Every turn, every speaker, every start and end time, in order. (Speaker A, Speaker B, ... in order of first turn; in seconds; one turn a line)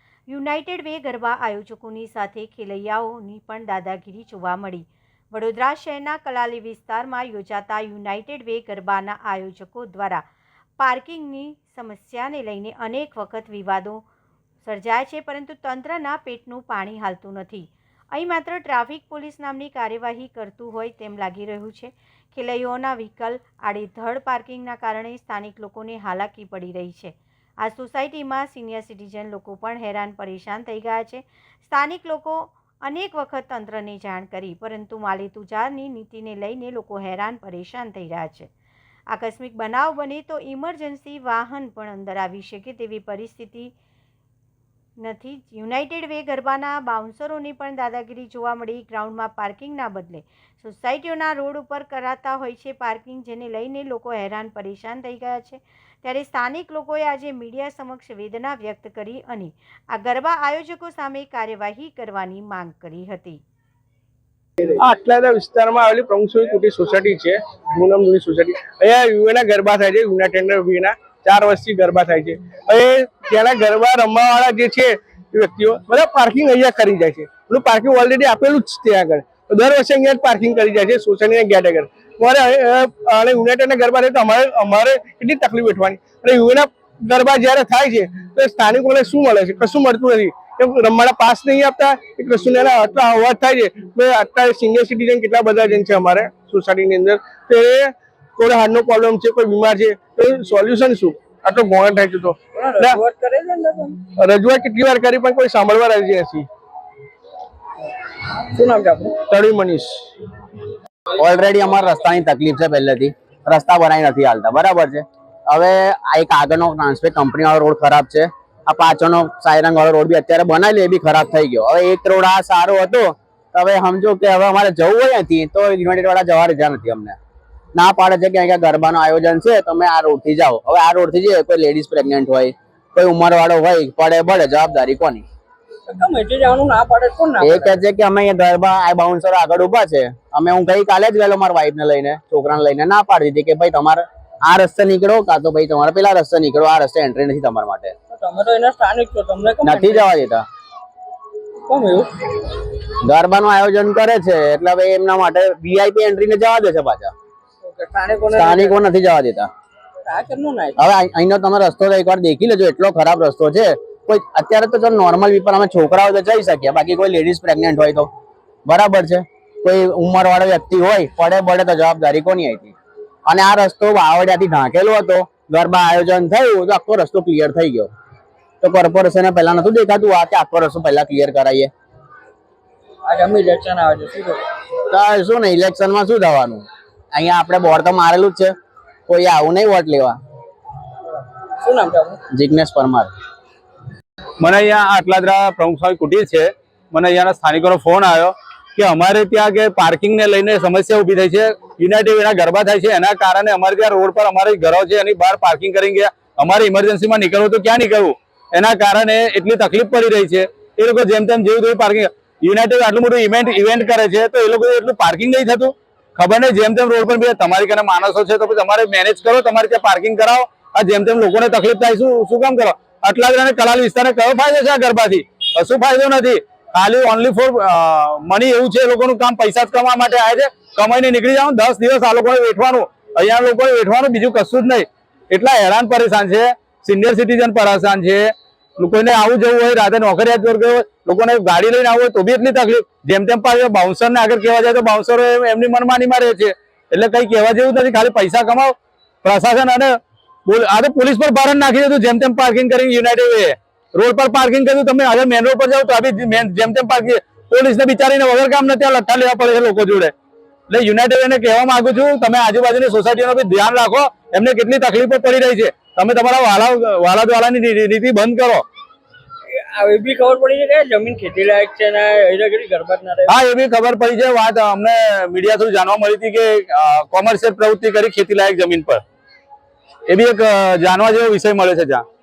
Speaker A: 0.3-10.2
Speaker A: 10.8-14.0
Speaker A: 14.6-38.5
Speaker A: 39.1-43.7
Speaker A: 45.0-63.4
Speaker B: 64.6-103.0
Speaker C: 102.5-104.0
Speaker B: 104.2-106.5
Speaker C: 108.5-109.2
Speaker B: 109.3-110.0
Speaker D: 111.1-127.2
Speaker D: 127.8-135.2
Speaker C: 135.9-137.8
Speaker D: 137.4-147.9
Speaker C: 148.1-150.1
Speaker D: 149.6-150.4
Speaker C: 151.7-152.3
Speaker D: 153.0-157.1
Speaker C: 157.6-158.8
Speaker D: 158.3-159.5
Speaker C: 160.1-160.8
Speaker D: 160.8-168.1
Speaker D: 168.7-172.8
Speaker D: 173.3-177.9
Speaker D: 178.6-181.7
Speaker C: 183.1-184.4
Speaker D: 184.9-188.5
Speaker D: 189.1-190.2
Speaker C: 191.1-192.2
Speaker D: 192.3-193.1
Speaker E: 194.4-260.1
Speaker E: 260.7-268.6
Speaker C: 269.5-273.4
Speaker E: 273.3-279.0
Speaker E: 280.1-282.1